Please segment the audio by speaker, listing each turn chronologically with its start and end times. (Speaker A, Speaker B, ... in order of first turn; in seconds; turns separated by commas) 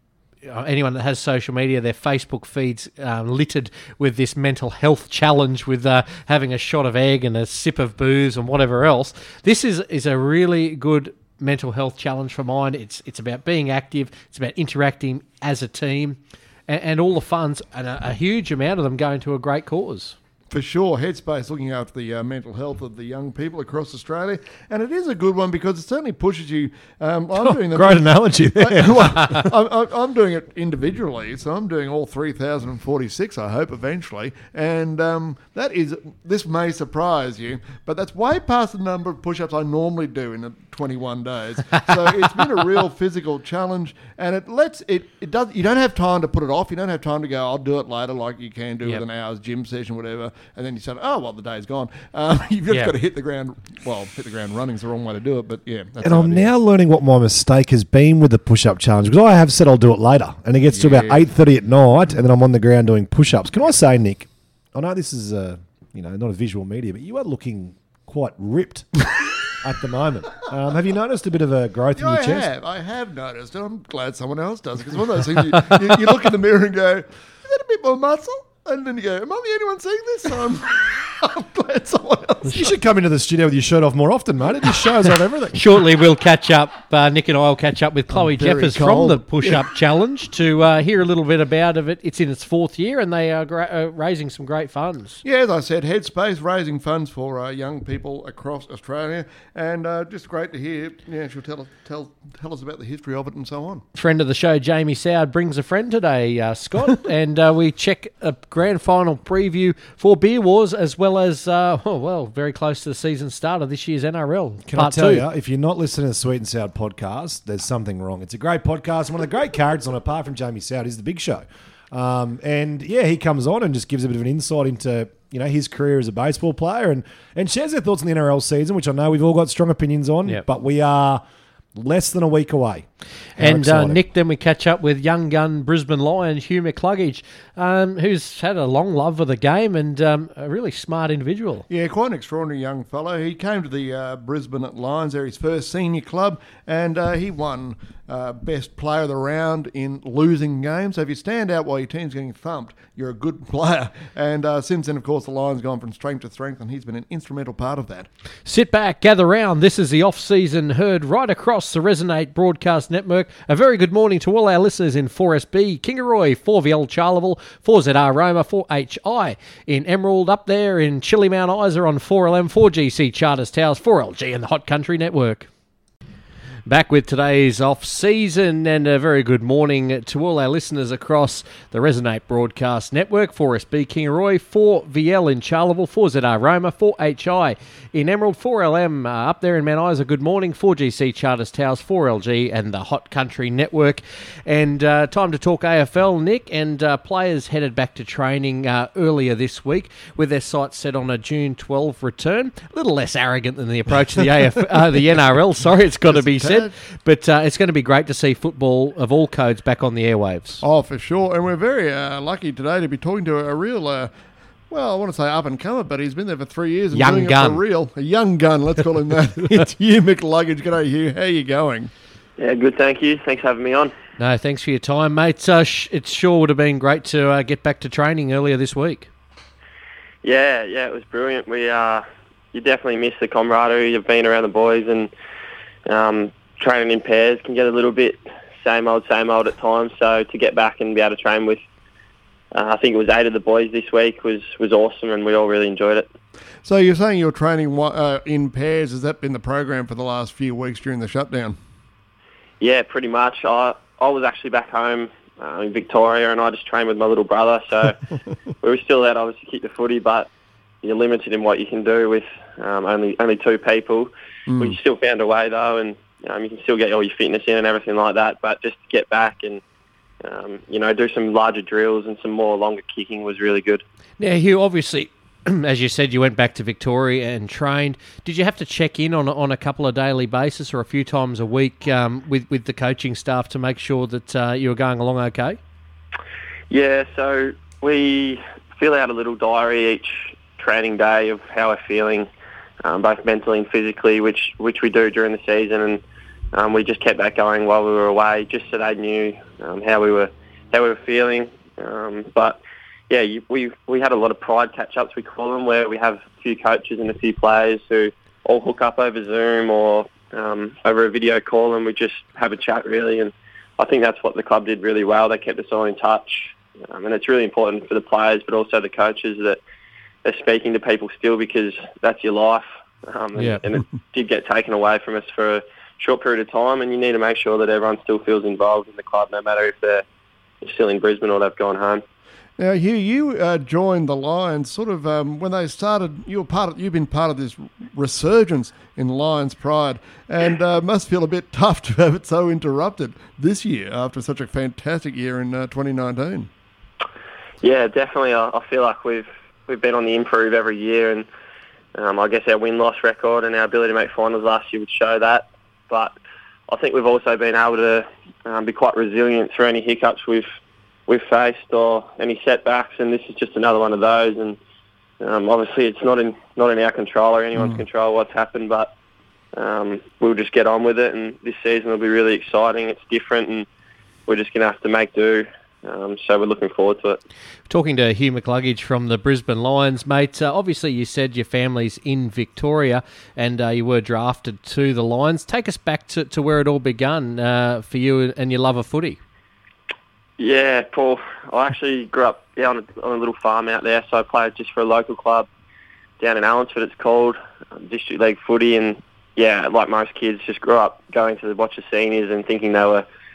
Speaker A: 0.4-20.2, Speaker B: 20.5-28.1, Speaker C: 27.4-29.5, Speaker B: 28.6-56.5, Speaker C: 56.0-69.0, Speaker B: 60.7-61.2, Speaker C: 69.6-72.5, Speaker B: 72.0-82.7, Speaker C: 82.5-85.6, Speaker A: 85.5-95.2, Speaker B: 88.2-89.6, Speaker B: 95.2-103.8, Speaker A: 104.0-115.3, Speaker C: 114.7-131.2, Speaker C: 131.8-132.9, Speaker C: 133.4-134.0, Speaker A: 133.4-141.7, Speaker B: 141.7-158.1, Speaker A: 158.4-175.5, Speaker A: 176.7-210.6, Speaker B: 206.1-206.7, Speaker B: 210.6-214.1, Speaker B: 214.7-221.9, Speaker A: 216.9-217.6, Speaker D: 222.4-223.9, Speaker A: 224.2-229.1, Speaker D: 230.2-235.1, Speaker D: 235.9-241.6, Speaker D: 242.5-246.1, Speaker B: 246.6-251.6, Speaker D: 252.6-258.0, Speaker D: 258.6-260.3, Speaker D: 260.8-269.6, Speaker B: 264.5-264.8, Speaker D: 270.2-273.8, Speaker A: 274.2-285.6, Speaker D: 286.7-292.3, Speaker D: 292.8-296.0, Speaker D: 296.5-319.6, Speaker D: 320.2-330.0, Speaker A: 323.4-323.6, Speaker D: 330.6-332.0, Speaker B: 332.6-346.5, Speaker D: 347.6-351.3, Speaker D: 351.9-356.1, Speaker D: 356.7-360.5, Speaker D: 361.1-364.6, Speaker D: 365.2-368.9, Speaker D: 369.6-373.7, Speaker D: 374.3-377.2, Speaker A: 377.7-389.2, Speaker D: 390.4-395.5, Speaker D: 396.2-403.1